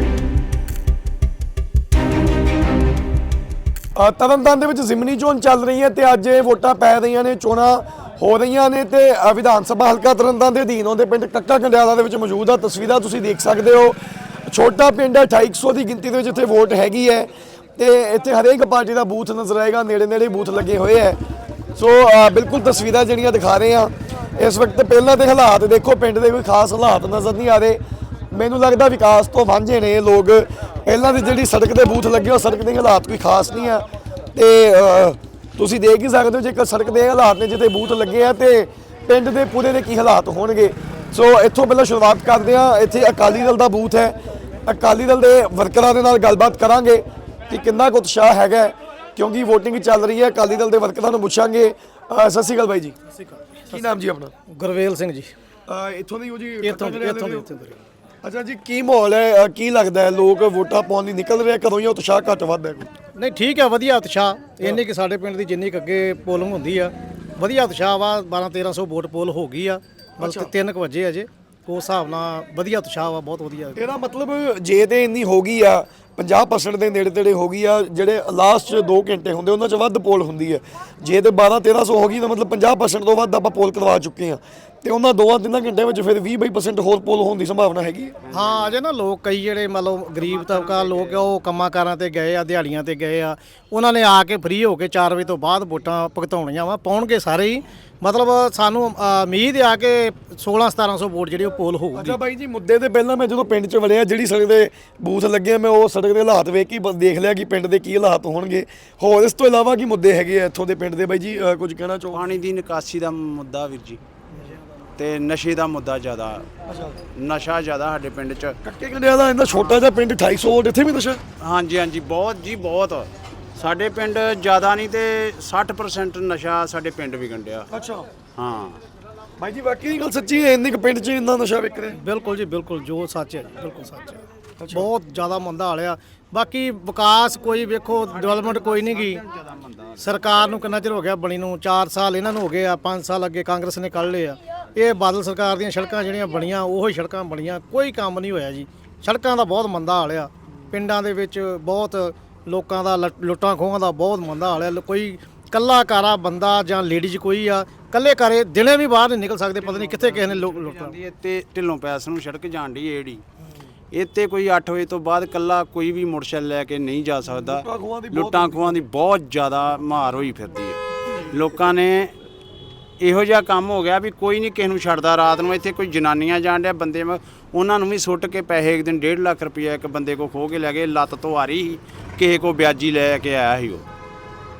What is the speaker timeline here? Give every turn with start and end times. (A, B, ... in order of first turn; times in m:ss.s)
0:04.0-0:21.2 A
0:21.8-0:27.8 A
0:28.3-0:44.2 A
0:44.7-0:53.0 A
0:53.2-0:53.9 B
0:53.7-0:54.3 A
0:54.5-0:55.3 B
0:55.7-0:57.5 A
0:56.6-0:57.8 B
0:58.2-1:02.9 A
1:03.2-1:13.8 B
1:10.2-1:10.5 A
1:13.8-1:28.2 A
1:28.2-1:28.8 C
1:28.3-1:42.2 B
1:30.2-1:31.3 C
1:42.0-1:52.3 A
1:52.1-1:54.0 C
1:55.0-1:56.5 C
1:56.7-1:57.0 A
1:57.2-1:58.6 C
1:58.6-2:01.2 A
1:59.5-1:59.8 C
2:01.4-2:07.7 C
2:07.7-2:08.1 A
2:08.4-2:08.8 C
2:09.4-2:12.0 A
2:11.9-2:19.2 B
2:14.6-2:14.9 A
2:18.0-2:20.5 C
2:20.0-2:41.0 B
2:40.0-2:43.2 C
2:43.9-2:52.1 C
2:47.3-2:48.8 A
2:53.0-3:03.8 C